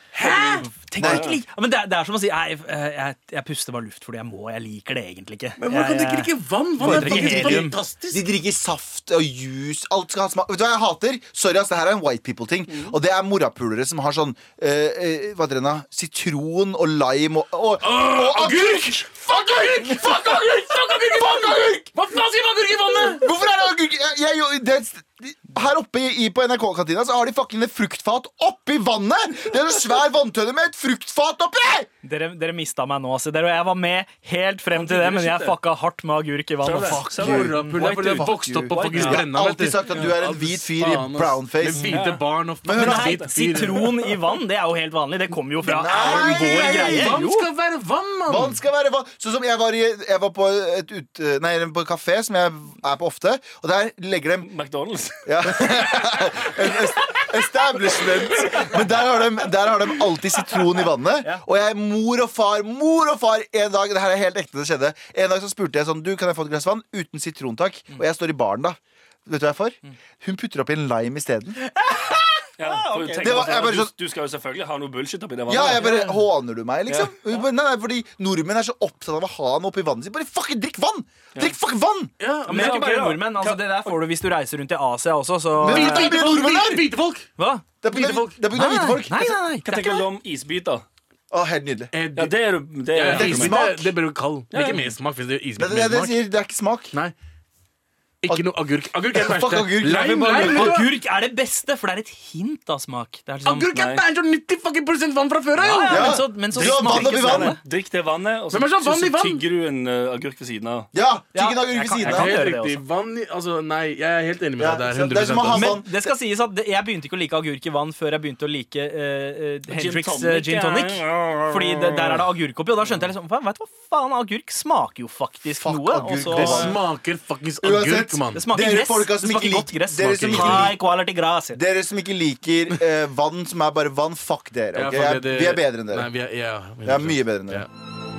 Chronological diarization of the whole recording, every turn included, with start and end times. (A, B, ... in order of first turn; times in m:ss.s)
0:00.1-0:00.6 A
0:00.2-0:07.8 B
0:01.0-0:01.3 C
0:01.0-0:01.4 D
0:05.6-0:08.3 A
0:06.8-0:20.4 C
0:12.7-0:12.9 D
0:17.8-0:23.2 A
0:21.1-0:21.8 C
0:23.2-0:31.9 C
0:32.0-0:39.2 B
0:34.7-0:35.6 D
0:36.6-0:38.2 D
0:36.9-0:42.0 C
0:37.1-0:43.9 A
0:41.8-0:42.2 D
0:42.6-0:43.2 C
0:42.7-0:47.4 B
0:45.6-0:47.2 C
0:46.0-0:48.6 A
0:48.3-0:54.5 C
0:54.4-0:55.9 D
0:55.2-1:11.6 C
1:11.7-1:13.6 B
1:12.6-1:15.9 D
1:13.2-1:13.9 C
1:15.5-1:22.1 C
1:15.8-1:16.1 A
1:16.9-1:17.1 D
1:22.2-1:22.8 A
1:22.4-1:24.0 D
1:22.4-1:26.1 B
1:25.6-1:26.9 C
1:25.6-1:27.3 A
1:27.4-1:27.6 B
1:27.8-1:29.4 C
1:27.9-1:28.4 A
1:28.5-1:30.0 B
1:29.6-1:30.8 D
1:31.3-1:31.9 C
1:31.9-1:32.3 A
1:32.2-1:33.6 D
1:32.9-1:36.1 A
1:33.1-1:33.9 C
1:34.5-1:34.8 D
1:35.6-1:36.9 C
1:38.2-1:40.9 A
1:39.1-1:40.8 C
1:39.9-1:43.7 B
1:43.4-1:46.2 A
1:43.7-1:44.0 D
1:45.6-1:47.6 B
1:45.9-1:47.6 C
1:46.5-1:50.9 D
1:48.5-1:49.4 A
1:50.9-1:52.3 C
1:51.3-1:52.8 B
1:52.0-1:55.8 A
1:54.6-1:55.9 C
1:55.5-2:06.7 B
1:59.7-2:02.2 D
2:05.6-2:06.8 C
2:06.3-2:08.4 A
2:07.6-2:10.8 C
2:08.3-2:11.6 B
2:10.3-2:10.7 A
2:11.5-2:16.1 C
2:14.7-2:17.7 A
2:16.8-2:17.7 C